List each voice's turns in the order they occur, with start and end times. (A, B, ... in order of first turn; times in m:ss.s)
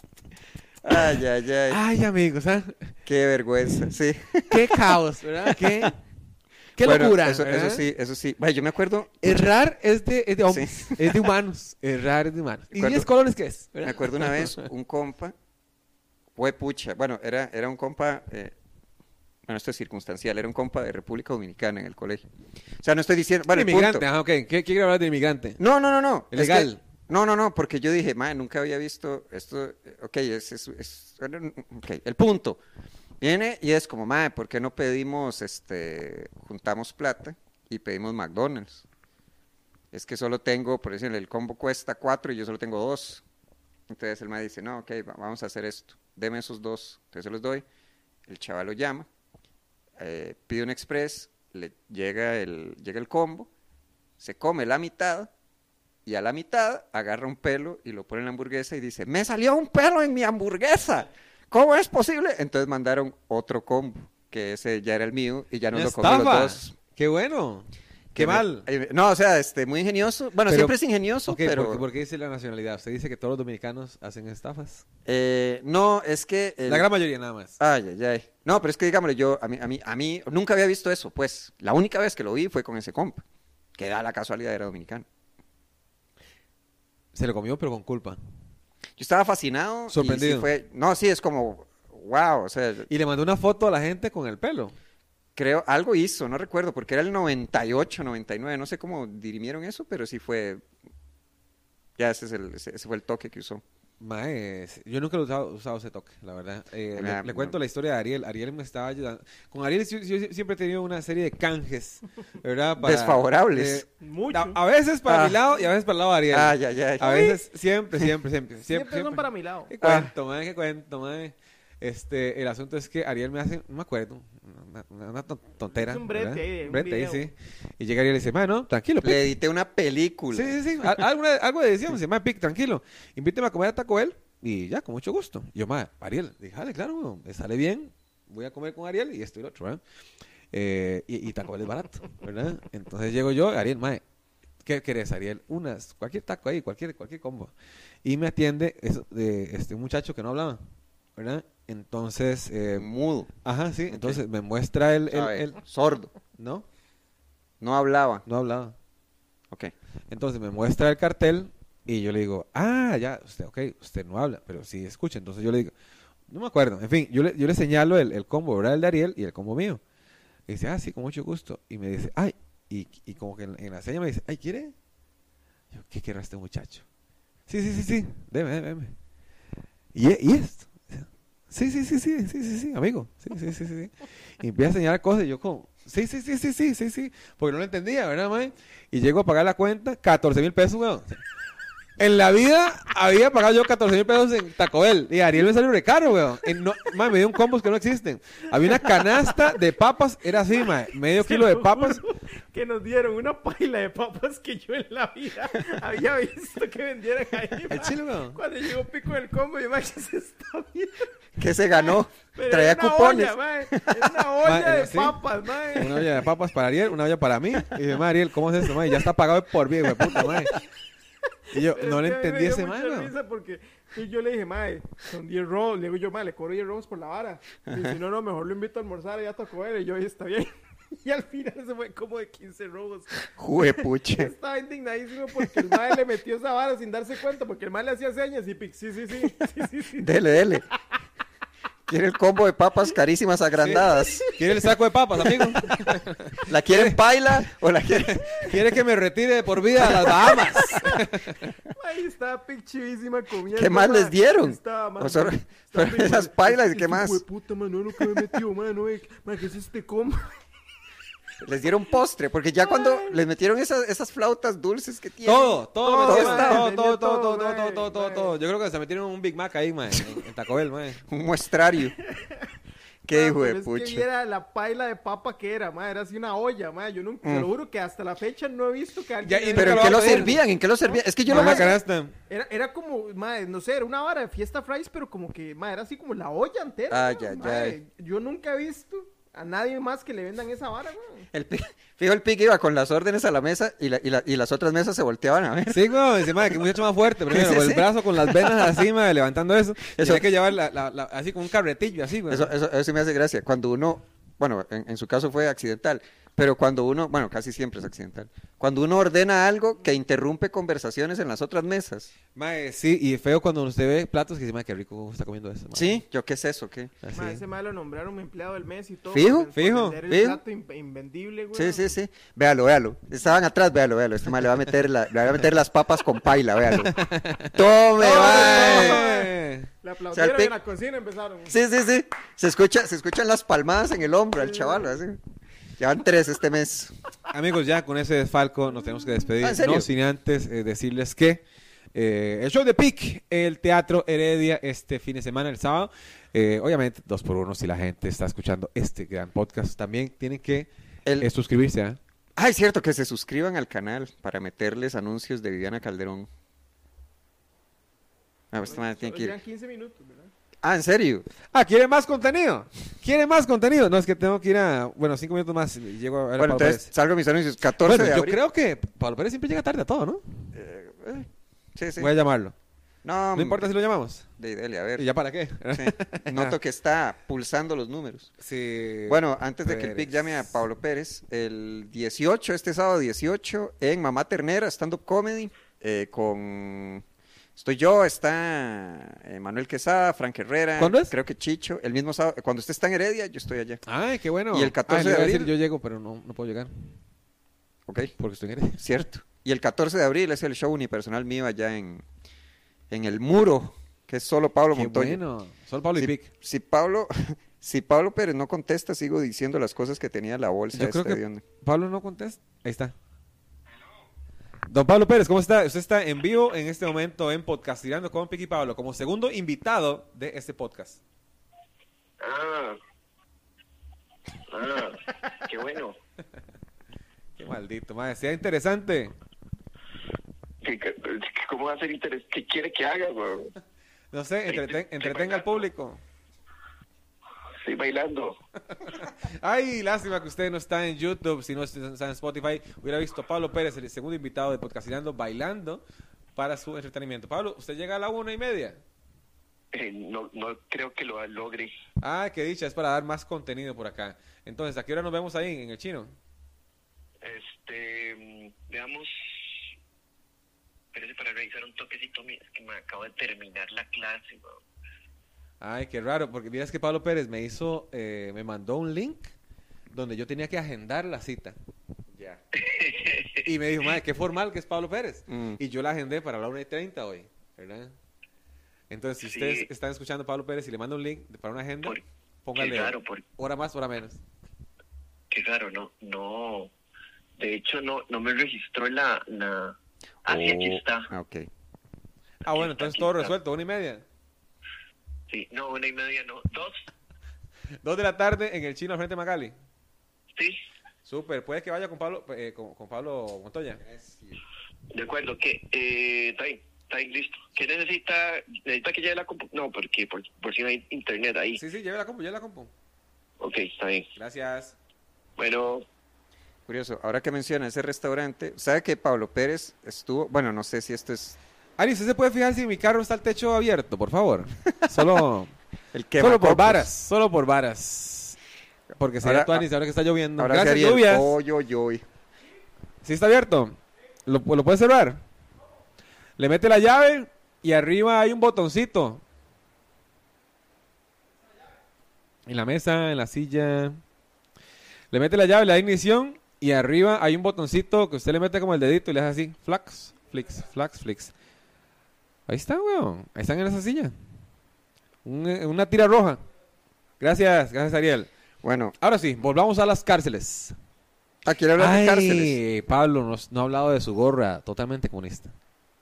0:00.8-0:01.8 A
0:01.7-0:02.9 B
0:03.0-0:05.9 A
0:04.5-0:06.0 B
0:06.8-0:07.8 B
0:06.8-0:09.4 A
0:09.2-0:14.7 B
0:10.5-0:11.3 A
0:12.7-0:13.1 A
0:13.8-0:15.3 A
0:16.4-0:18.5 A
0:19.4-0:22.2 A
0:22.8-0:24.0 A
0:23.5-0:25.6 B
0:25.6-0:32.6 A
0:26.3-0:26.8 B
0:33.2-0:38.8 A
0:39.9-0:43.2 A
0:43.9-0:47.6 A
0:48.3-0:49.1 A
0:50.0-0:53.5 A
0:54.2-0:55.3 A
0:56.0-1:06.7 A
1:05.7-1:08.7 B
1:08.1-1:11.8 A
1:10.5-1:10.8 B
1:11.3-1:14.8 B
1:15.0-1:16.9 A
1:16.6-1:17.6 B
1:17.6-1:23.2 A
1:23.8-1:25.0 A
1:27.1-1:28.2 B
1:29.0-1:32.9 A
1:29.9-1:30.5 B
1:32.9-1:34.8 B
1:35.4-1:40.6 A
1:42.0-1:43.6 A
1:44.0-2:09.2 B
1:47.0-1:47.6 A
1:52.8-1:53.8 A
1:54.0-1:54.6 C
1:55.1-1:55.4 A
1:56.3-1:57.4 A
1:58.7-1:59.7 C
1:59.8-2:00.1 A
2:05.7-2:07.3 C
2:09.0-2:10.6 A
2:10.3-2:19.8 B
2:20.5-2:24.0 B
2:24.6-2:27.5 B
2:28.0-2:30.6 B
2:31.2-2:32.9 B
2:32.7-2:33.3 A
2:33.4-2:35.6 B
2:33.9-2:34.2 A
2:35.1-2:36.1 A
2:36.4-2:36.6 B
2:37.6-2:38.2 A
2:38.2-2:38.8 B
2:40.1-2:45.7 B
2:46.3-2:49.8 B
2:50.5-2:54.7 B
2:55.7-2:56.8 B
2:57.5-2:59.0 B
2:59.9-3:11.2 B
3:12.0-3:22.0 B
3:18.7-3:19.5 C
3:21.2-3:31.1 C
3:27.7-3:28.4 B
3:31.4-3:34.2 A
3:31.7-3:36.2 C
3:34.4-3:40.6 B
3:39.9-3:40.6 C
3:41.5-3:43.1 B
3:41.5-4:00.1 C
3:47.7-3:48.0 A
3:53.4-3:54.3 A
4:00.0-4:00.6 A
4:01.9-4:04.3 A
4:03.6-4:07.0 B
4:03.8-4:04.3 C
4:06.4-4:08.5 A
4:08.1-4:11.4 B
4:09.8-4:10.9 A
4:10.6-4:11.0 C
4:11.7-4:20.4 C
4:13.5-4:17.2 A
4:18.0-4:18.3 A
4:21.4-4:26.7 A
4:22.6-4:23.2 C
4:25.2-4:31.0 B
4:25.8-4:28.4 C
4:31.1-4:32.0 A
4:31.9-4:32.5 C
4:33.0-4:34.0 A
4:33.1-4:41.8 C
4:37.2-4:37.5 A
4:39.2-4:40.4 B
4:39.6-4:41.7 A
4:41.3-4:42.1 B
4:42.3-4:51.3 C
4:46.9-4:47.8 A
4:51.3-4:56.6 A
4:55.7-5:02.5 B
4:57.3-4:58.8 A
4:59.9-5:00.2 A
5:02.3-5:12.1 A
5:12.3-5:16.0 B
5:15.7-5:17.0 A
5:17.0-5:17.4 B
5:17.1-5:21.9 C
5:19.1-5:19.5 A
5:19.5-5:20.0 B
5:20.0-5:20.4 A
5:21.5-5:27.0 A
5:26.8-5:29.7 B
5:27.5-5:29.0 A
5:28.0-5:31.6 C
5:30.1-5:30.5 A
5:31.4-5:35.2 A
5:35.8-5:36.9 A
5:37.3-5:41.4 B
5:39.4-5:39.9 A
5:41.9-5:52.0 B
5:52.4-5:56.3 A
5:58.5-5:59.4 A
5:58.6-6:00.3 C
6:00.6-6:01.2 A
6:01.5-6:06.9 B
6:06.4-6:08.4 A
6:07.8-6:10.5 B
6:10.5-6:12.1 A
6:12.0-6:12.5 B
6:13.0-6:13.7 A
6:13.3-6:14.2 B
6:14.4-6:15.0 A
6:15.0-6:16.6 B
6:15.7-6:18.3 A
6:18.4-6:20.5 B
6:19.1-6:27.0 A
6:27.6-6:33.8 A
6:30.8-6:31.1 B
6:33.8-6:36.9 B
6:34.5-6:35.5 A
6:37.8-6:38.1 A
6:38.2-6:39.0 B
6:38.8-6:42.0 A
6:42.9-6:45.2 A
6:44.7-6:46.3 B
6:46.0-6:51.4 A
6:50.7-6:52.9 B
6:54.7-7:01.0 B
7:02.2-7:02.8 D
7:04.5-7:06.0 D
7:07.4-7:09.1 B
7:10.6-7:13.5 D
7:14.1-7:16.0 B
7:14.5-7:15.7 D
7:17.6-7:18.3 D
7:19.0-7:25.8 B
7:26.4-7:28.8 B
7:29.7-7:31.7 D
7:32.0-7:36.2 B
7:37.2-7:39.1 D
7:40.9-7:44.6 D
7:45.6-7:49.3 B
7:49.9-7:51.6 B
7:52.1-7:52.4 A
7:52.5-7:53.4 D
7:53.4-7:57.9 B
7:55.3-7:55.6 A
7:58.9-8:04.2 B
7:59.2-7:59.7 D
8:02.6-8:03.2 D
8:05.3-8:06.7 D
8:07.4-8:11.1 D
8:10.2-8:11.5 A
8:12.4-8:14.0 B
8:12.5-8:13.3 D
8:15.3-8:16.8 D
8:17.8-8:19.5 B
8:21.0-8:23.8 B
8:23.8-8:24.4 A
8:24.9-8:31.6 D
8:31.6-8:32.7 B
8:33.4-8:34.1 D
8:34.2-8:34.8 B
8:35.4-8:35.8 D
8:36.7-8:41.4 A
8:41.8-8:45.5 B
8:45.9-8:46.9 A
8:46.2-8:48.4 B
8:49.0-8:51.4 B
8:49.2-8:49.7 A
8:50.4-8:52.0 A
8:53.0-8:55.2 B
8:56.4-8:59.2 B
9:02.4-9:04.0 B
9:05.1-9:11.3 B
9:12.5-9:14.1 B
9:15.2-9:16.4 B
9:17.2-9:18.3 B
9:18.6-9:18.9 A
9:19.0-9:20.8 B
9:21.4-9:22.6 A
9:21.8-9:25.5 B